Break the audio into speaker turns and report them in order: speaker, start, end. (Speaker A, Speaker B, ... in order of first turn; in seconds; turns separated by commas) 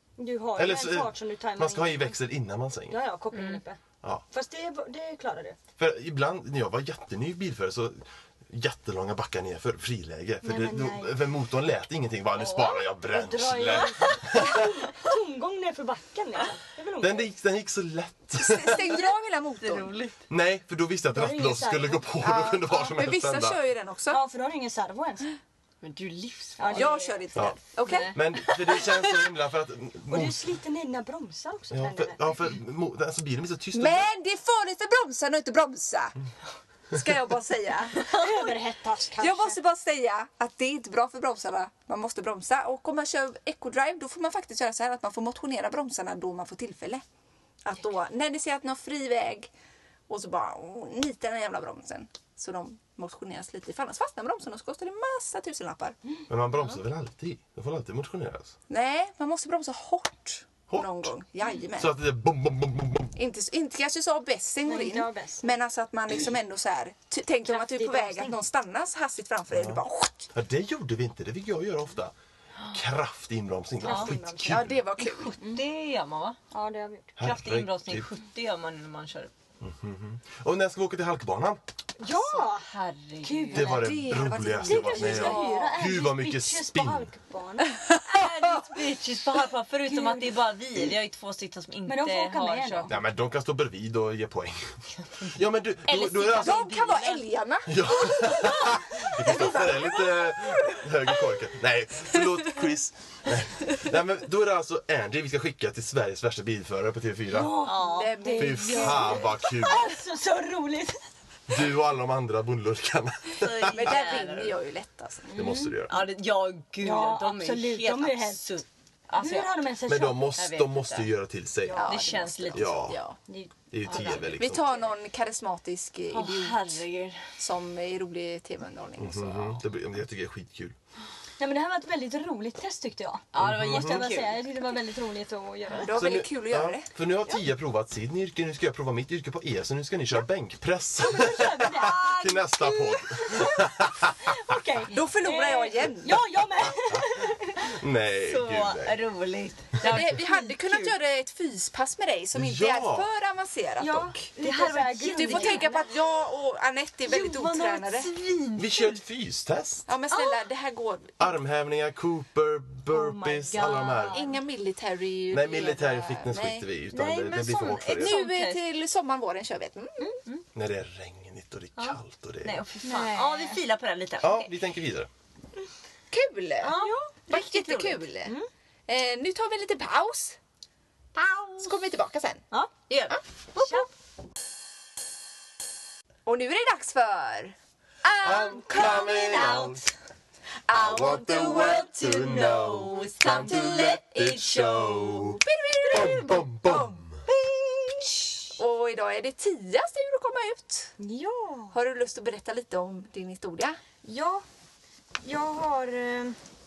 Speaker A: 0.2-2.2, Speaker B: 0.6-3.0, Speaker A: 2.9-5.6, Speaker C: 3.3-3.6, Speaker B: 5.8-14.7, Speaker A: 10.4-11.2, Speaker C: 12.4-14.3, Speaker A: 13.1-17.3, Speaker B: 17.0-19.1, Speaker D: 18.4-19.9, Speaker C: 19.6-20.2, Speaker B: 20.3-23.6, Speaker A: 21.1-22.1, Speaker D: 22.2-24.2, Speaker A: 24.1-25.3, Speaker C: 25.8-26.9, Speaker A: 26.6-28.1, Speaker D: 26.7-28.2, Speaker C: 27.9-28.5, Speaker B: 28.1-30.4, Speaker A: 30.1-32.2, Speaker B: 31.7-34.1, Speaker D: 33.7-36.1, Speaker D: 36.9-38.6, Speaker A: 38.0-39.6, Speaker D: 39.2-47.0, Speaker D: 47.6-49.5, Speaker D: 50.1-56.0, Speaker B: 56.3-58.5, Speaker D: 58.7-62.0, Speaker B: 60.7-61.1, Speaker B: 61.8-63.1, Speaker D: 63.1-70.3, Speaker A: 64.7-65.5, Speaker A: 67.5-68.4, Speaker B: 69.5-69.8, Speaker B: 70.3-72.1, Speaker B: 72.7-74.8, Speaker A: 73.8-74.7, Speaker C: 73.8-74.1, Speaker D: 74.4-75.4, Speaker C: 75.0-76.4, Speaker A: 76.5-77.1, Speaker B: 77.2-78.1, Speaker C: 77.2-79.3, Speaker B: 79.6-81.6, Speaker A: 82.0-82.7, Speaker C: 82.1-83.8, Speaker A: 83.2-87.7, Speaker B: 83.5-87.1, Speaker D: 83.6-85.7, Speaker C: 85.2-85.7, Speaker C: 88.1-93.0, Speaker A: 89.9-90.3, Speaker A: 91.9-93.0, Speaker B: 92.9-96.7, Speaker C: 95.9-97.2, Speaker D: 96.3-100.0, Speaker B: 97.7-107.7, Speaker A: 107.3-111.0, Speaker C: 107.6-108.3, Speaker D: 107.8-109.4, Speaker B: 108.4-109.9, Speaker B: 111.5-113.9, Speaker C: 113.4-114.6, Speaker D: 113.7-115.4, Speaker A: 115.3-115.8, Speaker B: 115.3-116.0, Speaker C: 115.9-119.7, Speaker A: 116.8-118.5, Speaker A: 119.2-120.4, Speaker B: 119.9-121.8, Speaker C: 120.4-121.1, Speaker A: 121.6-122.5, Speaker D: 121.7-123.2, Speaker C: 121.8-122.8, Speaker B: 122.5-123.0, Speaker A: 123.3-124.4, Speaker B: 123.7-124.7, Speaker C: 123.9-124.3, Speaker D: 124.3-126.8, Speaker C: 126.1-127.3, Speaker D: 127.4-129.6, Speaker B: 129.0-130.8, Speaker A: 131.4-135.9, Speaker C: 133.3-134.4, Speaker B: 133.4-134.1, Speaker D: 135.8-136.9, Speaker B: 135.9-144.4, Speaker A: 141.0-147.7, Speaker D: 144.9-146.2, Speaker B: 147.7-149.0, Speaker C: 148.2-151.0, Speaker D: 149.8-154.2, Speaker B: 152.3-153.1, Speaker A: 153.8-155.9, Speaker C: 154.4-155.8, Speaker D: 155.1-158.1, Speaker C: 157.0-159.0, Speaker B: 158.6-159.9, Speaker D: 159.9-161.2, Speaker B: 161.2-164.3, Speaker A: 162.9-164.2, Speaker D: 164.1-166.7, Speaker B: 165.3-168.2, Speaker C: 167.0-168.6, Speaker D: 167.9-170.1, Speaker B: 170.6-172.6, Speaker C: 171.8-174.5, Speaker A: 172.8-173.6, Speaker B: 174.2-175.1, Speaker D: 176.1-178.4, Speaker C: 176.6-178.0, Speaker A: 176.7-177.1, Speaker A: 178.2-178.5, Speaker D: 178.9-180.4, Speaker C: 181.2-181.6, Speaker D: 181.5-182.4, Speaker C: 182.9-183.9, Speaker A: 183.6-183.9, Speaker D: 186.2-189.6, Speaker B: 188.2-189.8, Speaker C: 188.5-189.9, Speaker D: 190.7-192.2, Speaker C: 190.8-195.4, Speaker B: 190.8-197.2, Speaker D: 193.4-194.0, Speaker D: 195.4-197.0, Speaker D: 198.4-201.0, Speaker A: 201.0-201.8, Speaker D: 201.7-203.8, Speaker A: 204.0-204.4, Speaker A: 205.2-206.4